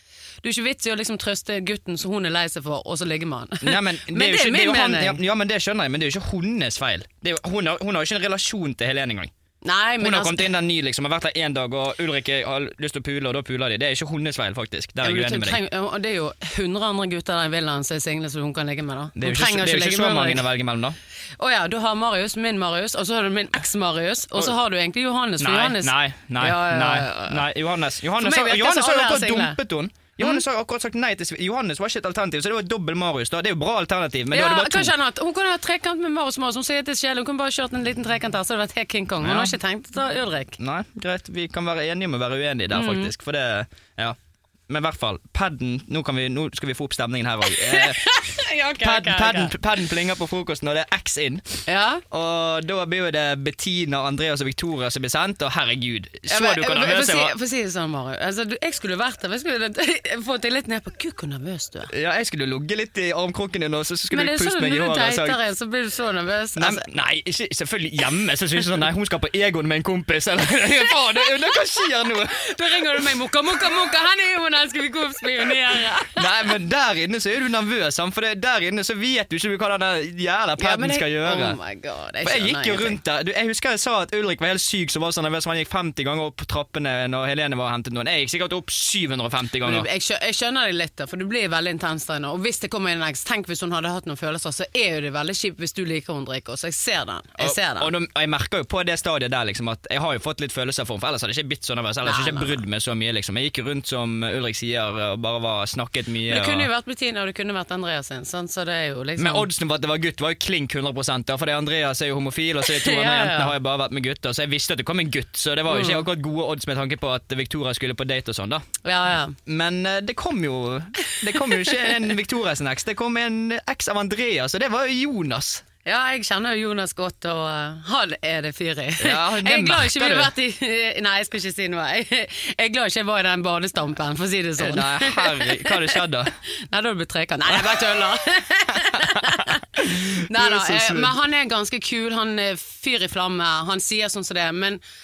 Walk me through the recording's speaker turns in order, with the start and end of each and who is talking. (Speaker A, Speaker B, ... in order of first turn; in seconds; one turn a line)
Speaker A: 0.4-5.2
Speaker B: 3.6-9.3
Speaker A: 9.6-10.5
Speaker B: 10.0-15.6
Speaker A: 15.0-20.4
Speaker B: 19.1-21.0
Speaker A: 21.4-27.4
Speaker B: 25.4-34.9
Speaker A: 28.2-29.6
Speaker A: 34.3-40.6
Speaker B: 39.2-39.5
Speaker B: 40.6-44.2
Speaker A: 42.7-43.1
Speaker B: 44.7-48.0
Speaker A: 47.5-49.5
Speaker B: 48.8-57.3
Speaker A: 51.6-52.0
Speaker A: 56.3-61.9
Speaker B: 61.9-65.4
Speaker A: 64.1-66.8
Speaker B: 66.5-72.5
Speaker A: 72.3-76.3
Speaker B: 76.1-81.6
Speaker A: 80.6-83.0
Speaker B: 82.2-89.9
Speaker A: 89.6-97.9
Speaker B: 97.4-106.7
Speaker A: 102.0-102.6
Speaker A: 106.3-109.5
Speaker B: 109.2-118.6
Speaker A: 112.7-113.5
Speaker A: 115.7-116.0
Speaker A: 118.8-119.4
Speaker B: 119.4-125.6
Speaker A: 125.8-144.8
Speaker B: 129.0-130.3
Speaker B: 134.6-136.3
Speaker B: 137.5-137.8
Speaker B: 138.9-141.1